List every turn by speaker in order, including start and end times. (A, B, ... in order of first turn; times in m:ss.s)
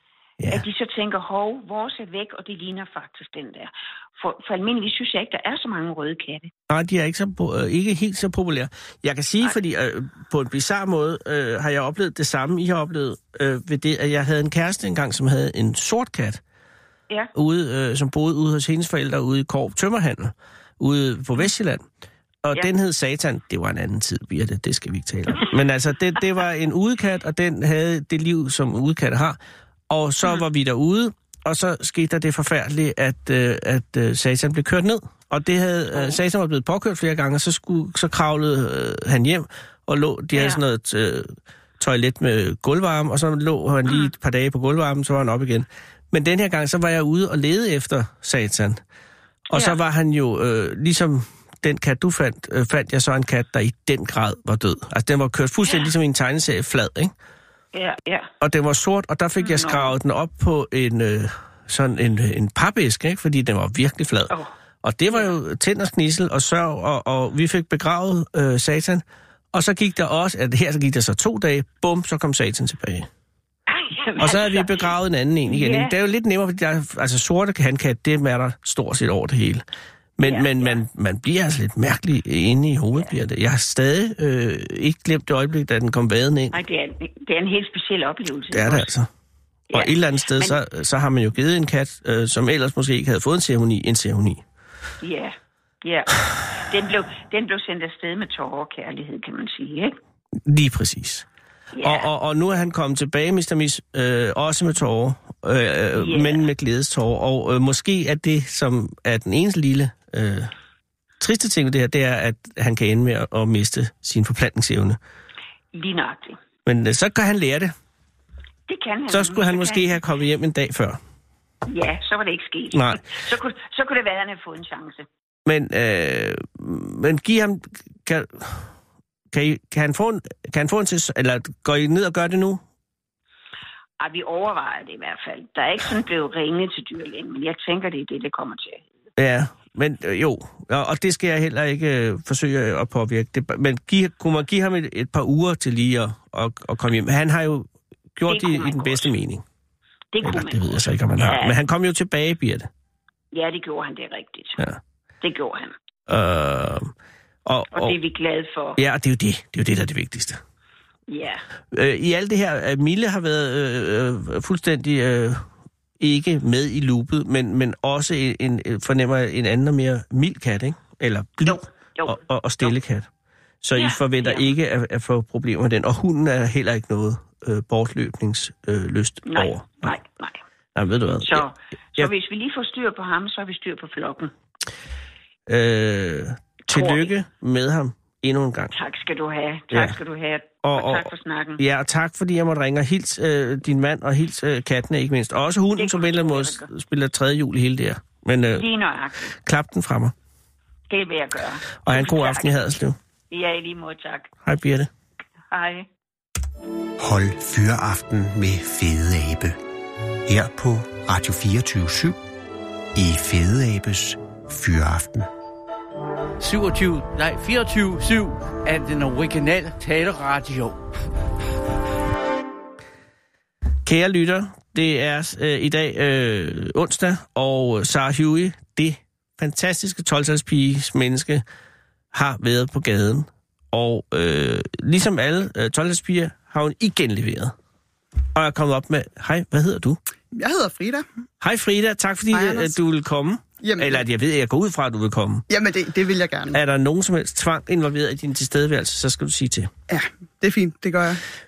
0:00.5-0:06.5 A
0:06.7-0:16.4 B
0:17.3-0:21.8 B
0:22.4-0:29.4 B
0:29.9-0:48.8 B
0:35.9-0:36.2 A
0:40.3-0:40.6 A
0:49.5-0:57.1 B
0:49.5-0:49.8 A
0:57.7-0:58.3 A
0:58.4-1:04.3 B
0:59.4-1:00.0 A
1:04.8-1:13.1 B
1:05.1-1:05.4 A
1:13.7-1:14.9 A
1:14.2-1:19.6 B
1:15.5-1:15.9 A
1:20.2-1:26.6 B
1:20.2-1:20.8 A
1:26.5-1:28.9 A
1:28.5-1:29.1 B
1:29.7-1:30.6 A
1:29.7-1:34.4 B
1:35.0-1:39.9 A
1:40.4-1:41.2 B
1:41.7-1:42.1 A
1:41.8-1:50.5 B
1:46.0-1:46.5 A
1:51.2-1:55.0 B
1:55.7-1:56.4 A
1:56.6-1:57.7 B
1:58.7-1:59.9 A
1:59.1-2:01.0 B
2:01.7-2:05.1 A
2:02.7-2:03.0 B
2:05.4-2:08.7 B
2:09.3-2:12.6 B
2:14.0-2:18.8 A
2:19.2-2:29.4 B
2:28.3-2:29.1 A
2:30.1-2:31.6 A
2:30.2-2:32.7 B
2:33.3-2:34.6 A
2:35.2-2:35.7 A
2:36.1-2:36.9 B
2:37.4-2:38.0 B
2:37.7-2:38.8 A
2:38.8-2:40.4 B
2:41.1-2:41.4 A
2:41.7-2:45.4 B
2:46.0-2:53.1 B
2:51.4-2:52.7 A
2:53.6-3:00.0 B
2:53.7-2:54.5 A
2:59.2-3:00.4 A
3:00.7-3:01.4 B
3:01.2-3:04.3 A
3:05.5-3:08.7 B
3:06.7-3:07.1 A
3:08.7-3:11.6 A
3:10.6-3:18.6 B
3:15.8-3:16.7 A
3:18.5-3:19.3 A
3:19.4-3:20.1 B
3:20.9-3:22.6 A
3:21.8-3:23.0 B
3:23.3-3:24.3 A
3:24.4-3:24.9 B
3:25.5-3:25.9 A
3:27.0-3:29.6 C
3:30.2-3:32.2 C
3:32.9-3:35.3 C
3:36.4-3:40.8 D
3:43.8-3:51.4 B
3:52.1-3:57.5 B
3:58.3-4:00.0 B
4:00.3-4:01.0 E
4:01.4-4:05.4 B
4:02.3-4:02.8 E
4:03.6-4:04.0 E
4:05.5-4:06.6 E
4:06.5-4:09.7 B
4:09.9-4:11.2 E